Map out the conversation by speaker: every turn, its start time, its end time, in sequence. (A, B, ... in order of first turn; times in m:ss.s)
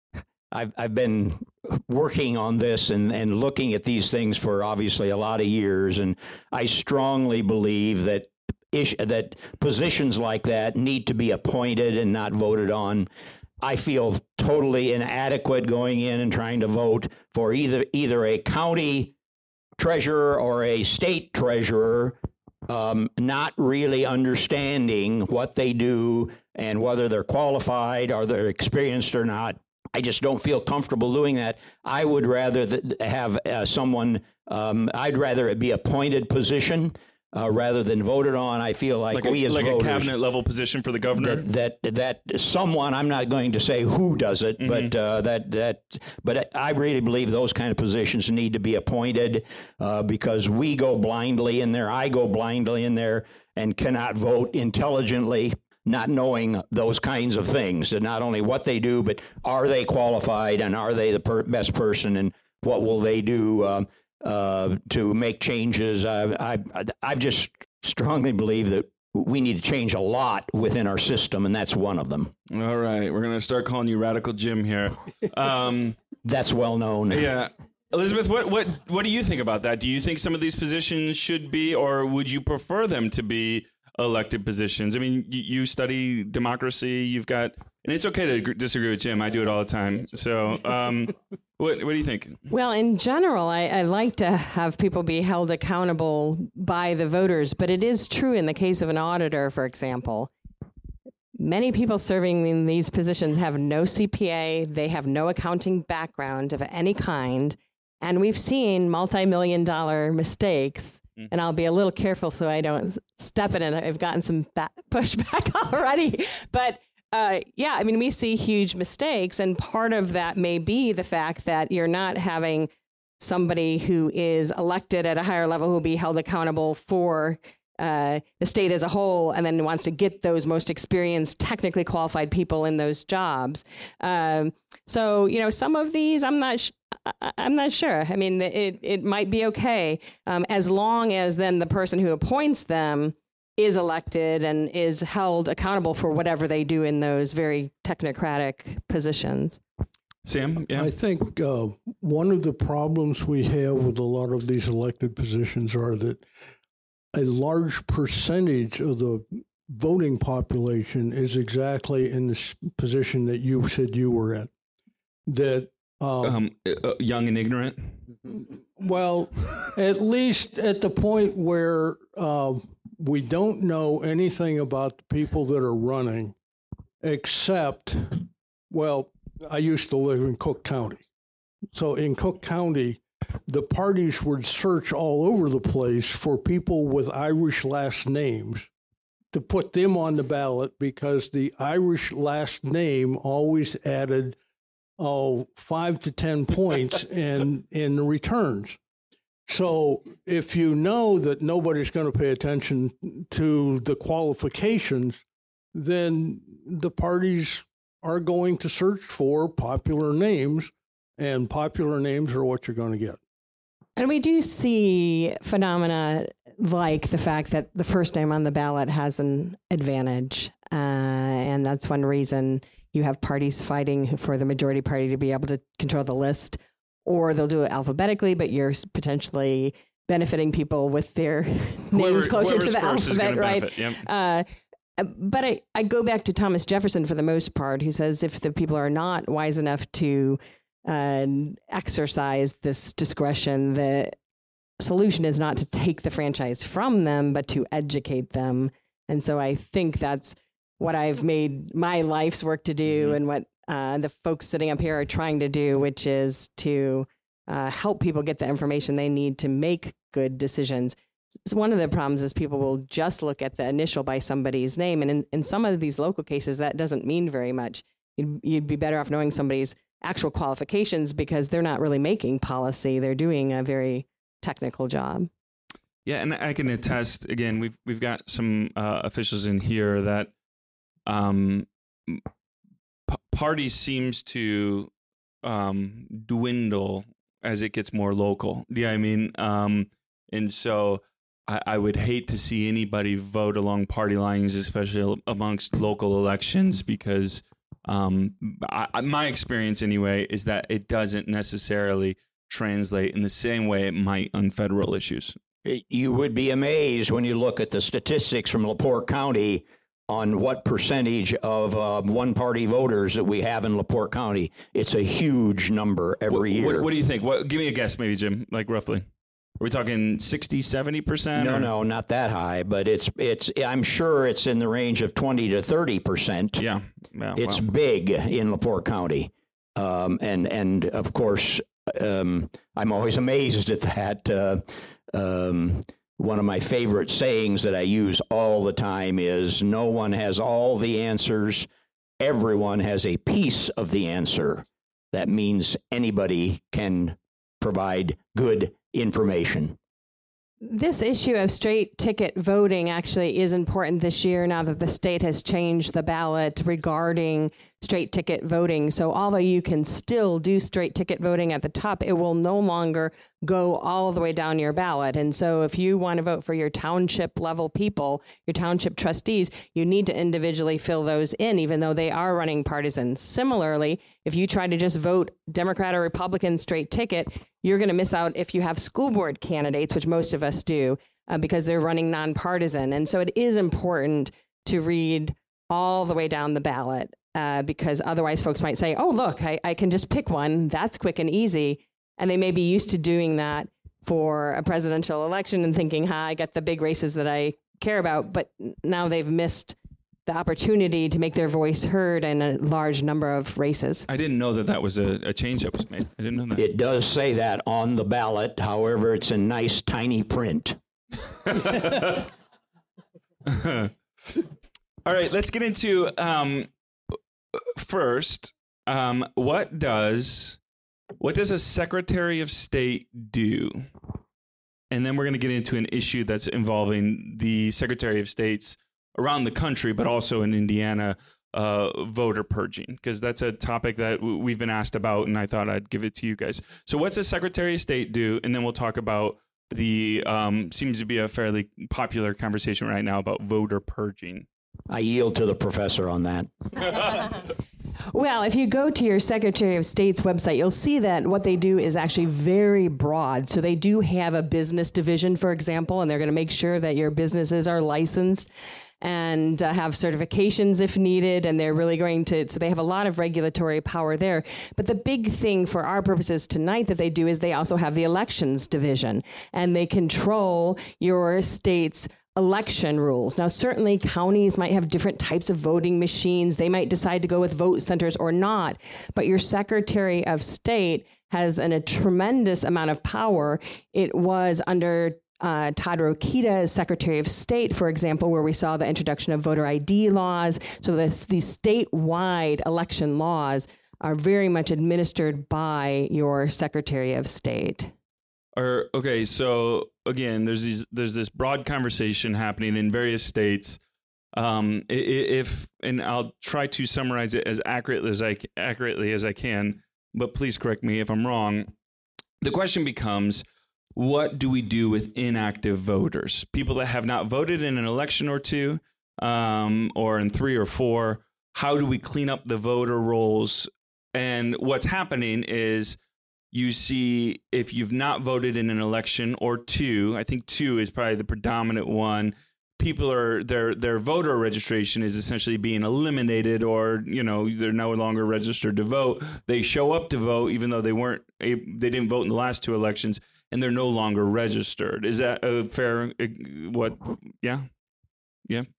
0:00.5-0:13.1 A
0:13.6-0:19.1 A
0:19.8-0:22.2 A
0:22.7-0:40.1 A
0:39.1-0:41.4 B
0:41.2-1:12.3 A
0:44.6-0:44.9 B
1:12.5-1:16.0 B
1:16.2-1:17.3 A
1:17.1-1:32.4 B
1:32.5-1:40.3 C
1:41.4-2:29.6 C
2:30.2-2:30.9 B
2:30.7-2:36.2 D
2:37.1-2:44.5 D
2:45.2-2:46.4 D
2:46.2-2:48.0 B
2:48.8-2:56.4 D
2:57.0-3:01.0 D
3:01.7-3:08.7 D
3:09.3-3:14.4 D
3:15.0-3:18.8 D
3:19.5-3:25.2 D
3:25.7-3:33.2 D
3:34.0-4:04.2 C
3:51.9-3:54.0 B
4:04.8-4:35.3 C
4:36.0-4:40.3 B
4:41.0-4:42.2 B
4:43.1-4:44.9 B
4:45.4-5:05.4 B
5:05.6-5:16.9 A
5:16.3-5:19.0 B
5:19.6-5:21.7 B
5:21.4-5:26.6 A
5:26.6-5:27.6 B
5:27.4-5:41.7 A
5:42.2-5:49.8 A
5:50.6-6:39.7 C
6:40.3-6:44.1 C
6:44.1-6:46.6 B
6:46.5-6:50.8 A
6:51.5-6:52.3 B
6:53.4-6:54.4 B
6:55.0-6:56.7 B
6:57.6-7:00.6 B
7:01.2-7:03.9 B
7:04.9-7:24.4 B
7:24.9-7:26.5 A
7:28.1-7:38.5 C
7:39.0-8:17.9 C
8:18.6-8:23.8 B
8:24.3-8:31.7 B
8:32.4-8:33.4 B
8:34.0-8:46.0 B
8:46.5-9:07.6 B